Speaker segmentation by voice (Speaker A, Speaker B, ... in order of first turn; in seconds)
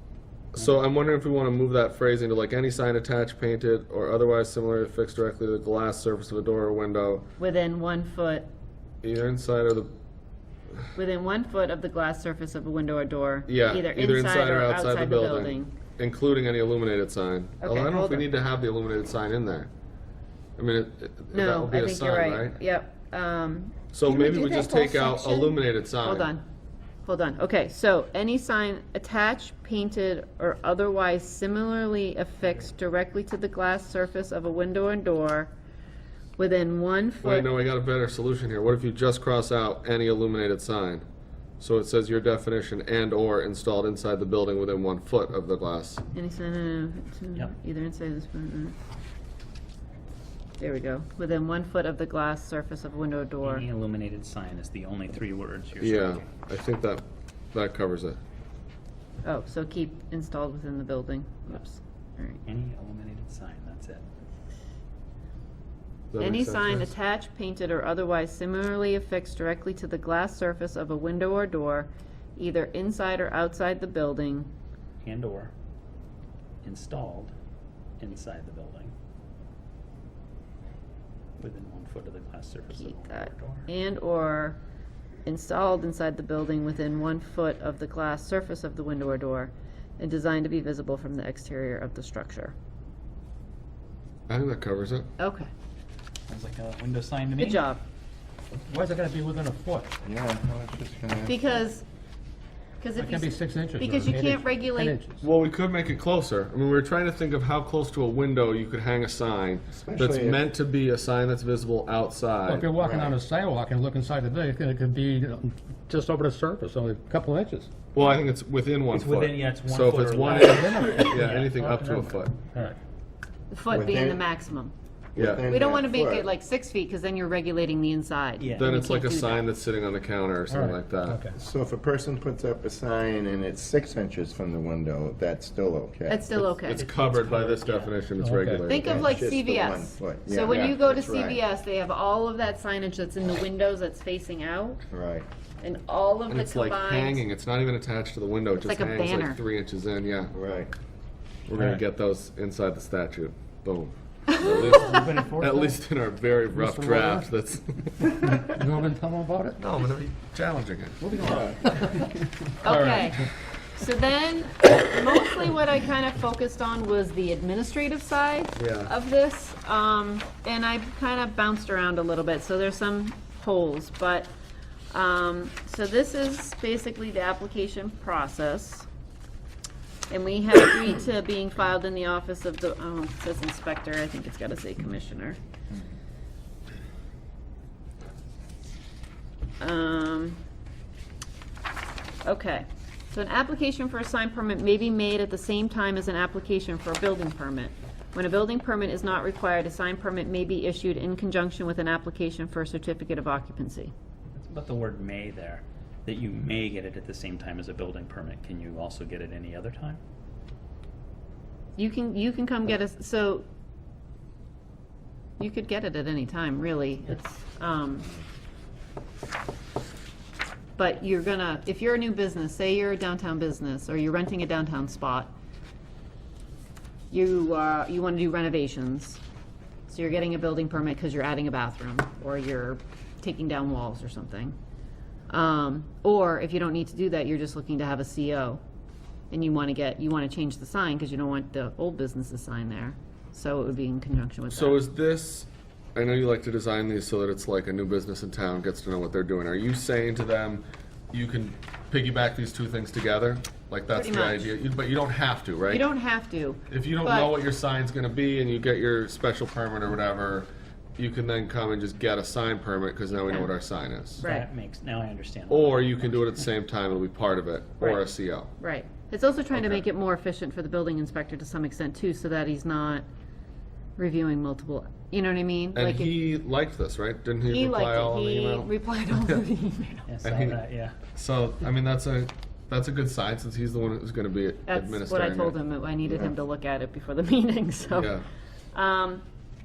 Speaker A: 0.5-7.3, 9.0-9.9, 13.5-19.7, 20.6-22.6, 23.9-26.3, 37.2-41.0, 41.6-46.0, 55.8-58.2, 66.1-66.9, 94.3-95.1, 105.2-112.7, 117.9-122.4, 125.2-125.4, 128.6-131.2, 136.4-139.1, 140.5-140.8, 146.3-150.3, 151.5-158.1, 159.6-161.4, 168.6-168.9, 244.5-255.9, 256.7-264.2, 265.5-268.5, 269.5-269.8, 275.7-279.4, 280.2-280.6, 281.1-285.6, 287.9-288.3
Speaker B: 0.6-0.8, 53.4-56.3, 62.5-64.0, 75.0-75.5, 76.6-77.3, 78.0-78.9, 81.4-83.7, 96.3-97.7, 118.9-121.5, 128.4-128.7, 136.7-138.0, 204.4-210.0, 264.2-266.5, 280.1-280.9
Speaker C: 7.4-8.5, 11.0-15.8, 17.6-18.3, 21.3-26.4, 27.1-35.5, 36.4-37.5, 46.1-48.8, 50.6-53.7, 59.2-62.4, 66.2-74.5, 82.7-84.6, 85.3-92.5, 95.2-95.5, 97.4-97.8, 101.3-101.8, 102.8-105.0, 123.5-124.7, 125.5-129.5, 136.1-136.8, 138.7-144.8, 145.6-147.2, 148.6-149.4, 162.6-174.3, 174.9-178.9, 180.1-185.4, 189.6-190.4, 192.2-203.9, 211.8-213.4, 215.4-218.1, 220.8-225.3, 227.1-229.2, 229.9-234.6, 235.3-238.6, 239.3-244.8, 253.9-254.5, 255.7-257.3, 263.2-263.5, 264.2-264.5, 267.8-268.1, 268.6-273.1, 274.0-276.2, 277.5-280.1, 284.7-288.2, 288.7-289.2
Speaker D: 98.7-99.9, 103.0-105.2, 112.5-117.7, 120.3-122.8, 130.5-131.4, 138.2-138.7, 151.6-151.8, 154.5-155.8, 156.5-157.3, 158.1-159.6, 161.0-162.1, 162.7-163.0
Speaker E: 100.0-101.5, 109.7-110.4, 112.8-113.2, 123.7-124.2, 125.2-126.3, 131.3-136.3, 138.7-141.4, 144.9-145.3, 150.3-150.7, 161.2-161.6